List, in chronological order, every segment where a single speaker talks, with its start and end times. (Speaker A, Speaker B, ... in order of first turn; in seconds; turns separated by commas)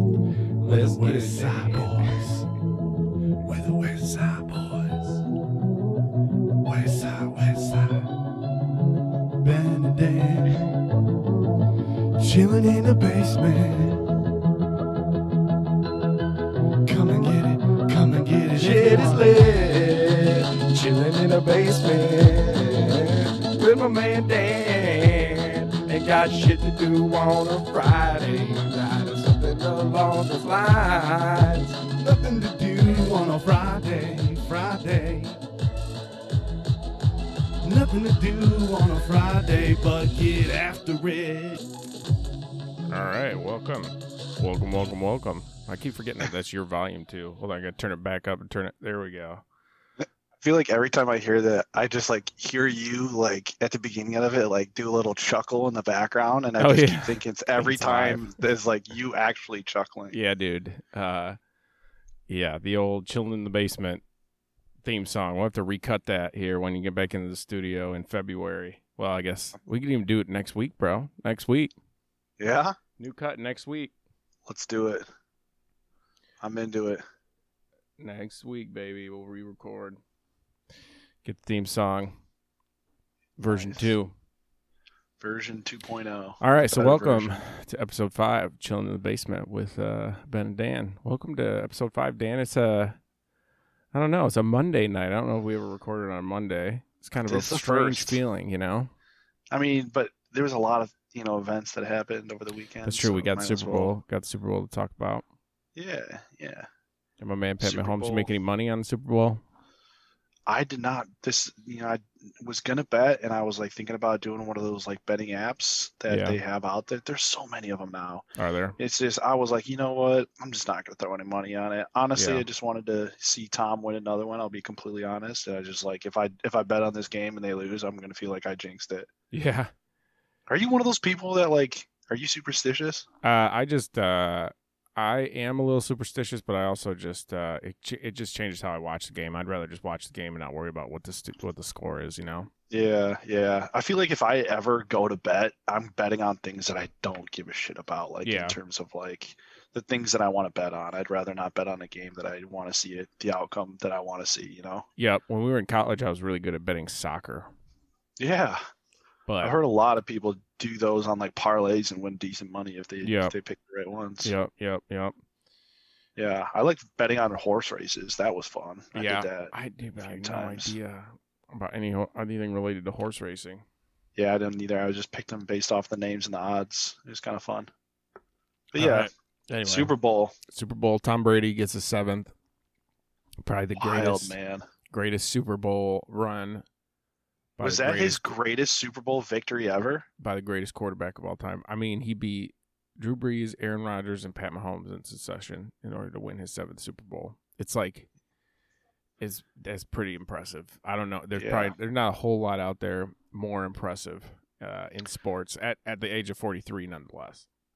Speaker A: 0.6-2.4, Speaker B: 0.6-2.5, Speaker A: 3.4-5.2, Speaker A: 6.6-8.1, Speaker A: 9.4-10.7, Speaker A: 12.2-14.0, Speaker A: 16.9-20.4, Speaker B: 18.7-28.7, Speaker A: 28.4-30.1, Speaker B: 30.1-31.7, Speaker A: 31.7-35.4, Speaker A: 37.6-41.6, Speaker B: 42.9-49.4, Speaker C: 50.4-60.2, Speaker B: 56.6-58.3, Speaker B: 60.1-61.4, Speaker B: 62.3-64.0, Speaker B: 64.8-71.7, Speaker C: 72.4-72.7, Speaker B: 73.0-73.9, Speaker C: 74.5-75.0, Speaker C: 76.4-77.0, Speaker B: 78.0-80.0, Speaker B: 81.2-82.2, Speaker B: 83.4-84.1, Speaker C: 83.5-83.9, Speaker C: 85.2-87.4, Speaker B: 86.4-93.0, Speaker B: 93.9-98.9, Speaker C: 97.3-98.2, Speaker C: 99.5-104.0, Speaker B: 102.8-105.2, Speaker C: 105.8-106.7, Speaker B: 107.2-109.4, Speaker C: 107.6-108.3, Speaker C: 110.5-118.2, Speaker B: 116.1-116.4, Speaker B: 118.4-118.8, Speaker C: 118.8-129.1, Speaker B: 122.2-122.5, Speaker B: 129.3-129.7, Speaker C: 130.5-133.1, Speaker B: 133.2-142.5, Speaker C: 142.7-154.9, Speaker B: 148.2-148.6, Speaker B: 155.0-157.5, Speaker C: 158.2-158.6, Speaker B: 159.3-159.6, Speaker C: 159.4-164.3, Speaker B: 163.0-163.3, Speaker B: 164.2-165.1, Speaker C: 166.2-170.8, Speaker B: 168.9-173.6, Speaker C: 174.2-177.7, Speaker C: 178.7-179.1, Speaker B: 178.8-179.9, Speaker C: 179.7-180.3, Speaker B: 180.5-182.3, Speaker B: 183.4-184.4, Speaker C: 183.8-184.6, Speaker B: 184.9-186.7, Speaker B: 187.6-188.2, Speaker C: 187.6-190.1, Speaker B: 190.2-198.1, Speaker B: 199.2-207.5, Speaker C: 201.3-201.7